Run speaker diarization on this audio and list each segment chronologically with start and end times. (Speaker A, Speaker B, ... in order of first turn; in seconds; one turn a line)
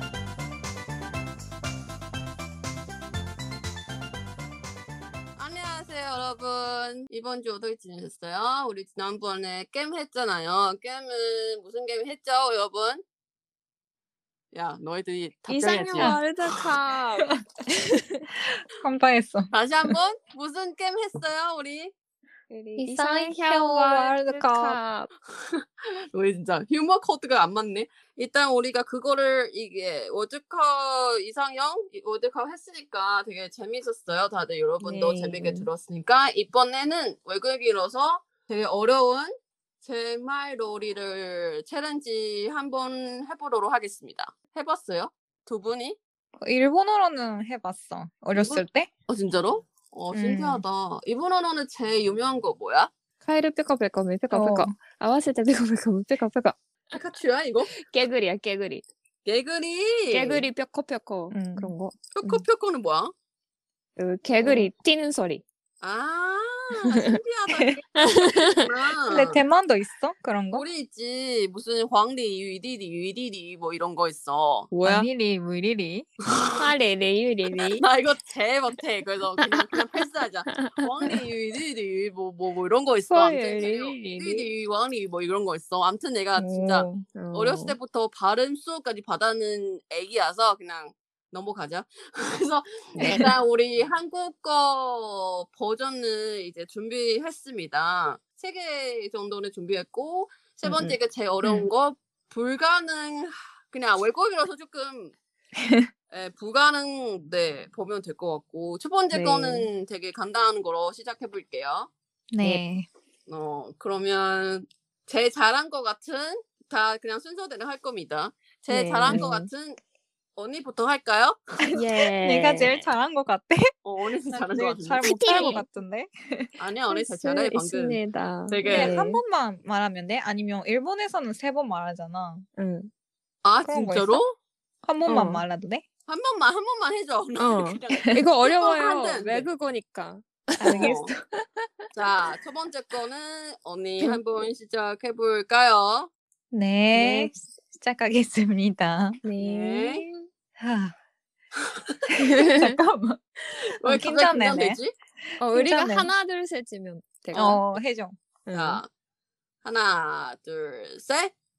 Speaker A: 5.4-13.0
Speaker A: 14.5-16.2
Speaker B: 15.5-18.2
Speaker C: 18.7-20.0
Speaker A: 19.5-21.9
Speaker B: 22.5-25.1
Speaker C: 22.8-24.8
Speaker A: 25.3-39.3
Speaker B: 34.8-35.7
Speaker A: 39.8-46.0
Speaker C: 46.4-48.9
Speaker A: 48.3-52.9
Speaker C: 50.1-50.6
Speaker B: 53.2-56.6
Speaker C: 54.3-54.7
Speaker A: 56.9-57.7
Speaker B: 57.7-58.9
Speaker A: 59.3-60.5
Speaker B: 60.1-62.0
Speaker C: 61.3-61.7
Speaker A: 62.1-63.1
Speaker B: 64.0-65.4
Speaker A: 65.8-69.4
Speaker C: 67.5-67.8
Speaker B: 68.0-68.7
Speaker C: 69.1-70.7
Speaker A: 70.5-74.7
Speaker B: 74.7-75.1
Speaker C: 74.8-76.1
Speaker A: 76.3-76.7
Speaker B: 76.6-77.9
Speaker A: 77.6-105.2
Speaker B: 79.4-79.7
Speaker B: 80.5-80.8
Speaker B: 83.1-84.5
Speaker B: 86.4-87.8
Speaker B: 93.0-93.3
Speaker B: 100.7-101.0
Speaker C: 101.4-101.7
Speaker C: 105.6-105.9
Speaker A: 106.1-111.9
Speaker B: 109.1-109.7
Speaker C: 112.3-112.9
Speaker A: 113.3-119.8
Speaker B: 118.7-119.5
Speaker A: 120.4-121.4
Speaker C: 121.6-123.7
Speaker B: 121.8-122.8
Speaker A: 123.8-125.5
Speaker C: 124.3-126.5
Speaker B: 125.0-125.7
Speaker A: 126.6-129.0
Speaker B: 127.0-129.2
Speaker C: 128.7-132.5
Speaker B: 132.6-132.9
Speaker A: 133.4-134.3
Speaker C: 133.7-134.2
Speaker C: 134.8-135.8
Speaker B: 135.1-135.4
Speaker A: 136.1-139.5
Speaker B: 137.4-141.0
Speaker C: 140.6-141.2
Speaker A: 140.7-141.1
Speaker A: 141.9-146.1
Speaker C: 146.5-149.2
Speaker B: 146.9-147.3
Speaker B: 149.2-150.1
Speaker A: 149.4-150.1
Speaker C: 150.6-151.0
Speaker A: 151.6-152.0
Speaker C: 152.2-154.8
Speaker B: 152.2-152.8
Speaker A: 153.8-154.9
Speaker B: 155.4-157.6
Speaker C: 155.5-156.1
Speaker A: 157.3-157.6
Speaker C: 157.3-158.2
Speaker B: 158.5-158.8
Speaker A: 158.5-158.9
Speaker A: 159.6-161.3